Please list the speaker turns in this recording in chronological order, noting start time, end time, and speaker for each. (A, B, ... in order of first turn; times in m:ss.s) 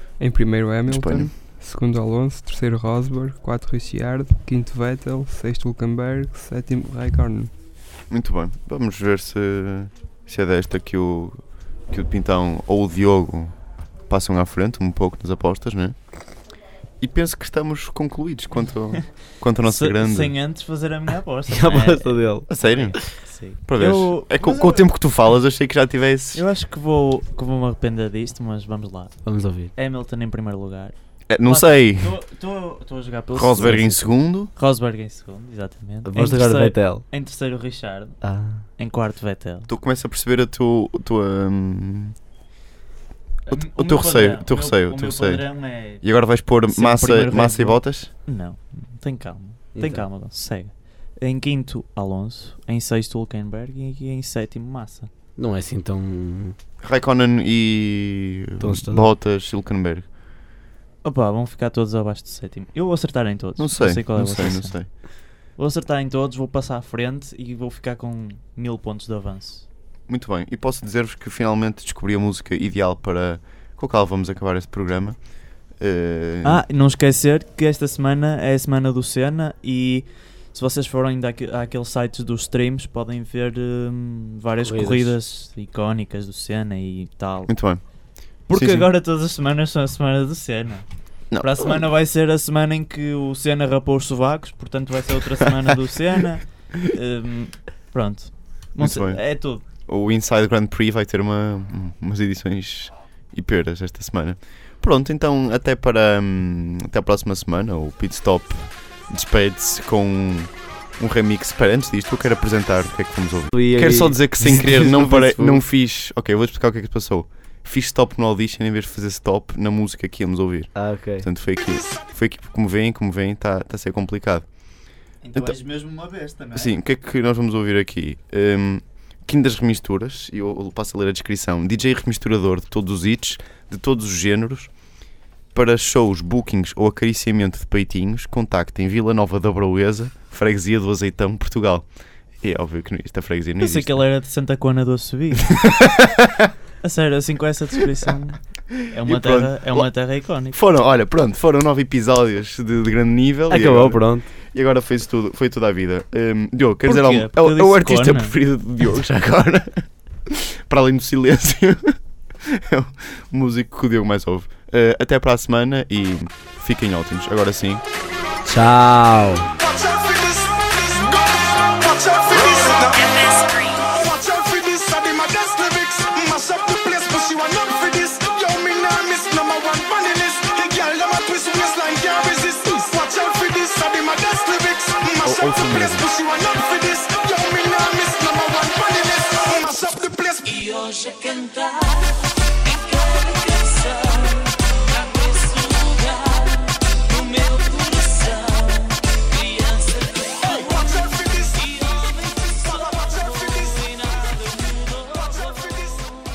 0:00.2-0:07.5 A
0:00.9-0:01.3 B
0:08.1-0:16.0 B
0:17.0-0:20.3 B
0:19.6-0:24.9 C
0:21.5-0:22.5 D
0:22.5-0:23.0 B
0:23.6-0:26.4 B
0:26.3-0:29.2 C
0:29.2-0:29.7 D
0:29.8-0:38.2 C
0:31.3-0:32.2 B
0:33.3-0:34.5 B
0:33.6-0:34.0 D
0:36.0-0:37.0 D
0:38.2-0:38.6 D
0:38.8-0:39.7 C
0:39.7-0:42.2 B
0:43.5-0:46.1 C
0:43.5-0:48.1 B
0:46.7-0:55.1 C
0:49.8-0:50.0 D
0:55.4-0:56.6 D
0:56.8-1:00.1 B
0:58.6-0:59.1 D
1:01.0-1:05.0 C
1:03.6-1:04.9 B
1:05.6-1:09.7 C
1:10.1-1:16.6 B
1:16.4-1:27.8 C
1:24.6-1:25.2 D
1:27.5-1:27.8 B
1:28.5-1:39.6 C
1:28.5-1:28.9 B
1:31.3-1:31.8 B
1:38.8-2:04.5 B
1:53.5-1:55.6 D
2:00.8-2:01.3 D
2:01.8-2:02.0 E
2:05.2-2:06.7 C
2:06.5-2:14.7 B
2:15.5-2:21.9 B
2:22.4-2:24.0 B
2:23.6-2:25.7 C
2:25.5-2:26.5 B
2:26.8-2:30.6 C
2:29.0-2:29.9 B
2:30.5-2:47.8 B
2:33.5-2:34.3 D
2:36.8-2:38.4 C
2:48.4-2:49.5 D
2:49.6-3:10.6 E
3:05.2-3:06.1 B
3:10.5-3:20.6 C
3:20.4-3:23.9 E
3:21.6-3:22.6 C
3:23.5-3:25.9 C
3:25.4-3:25.9 E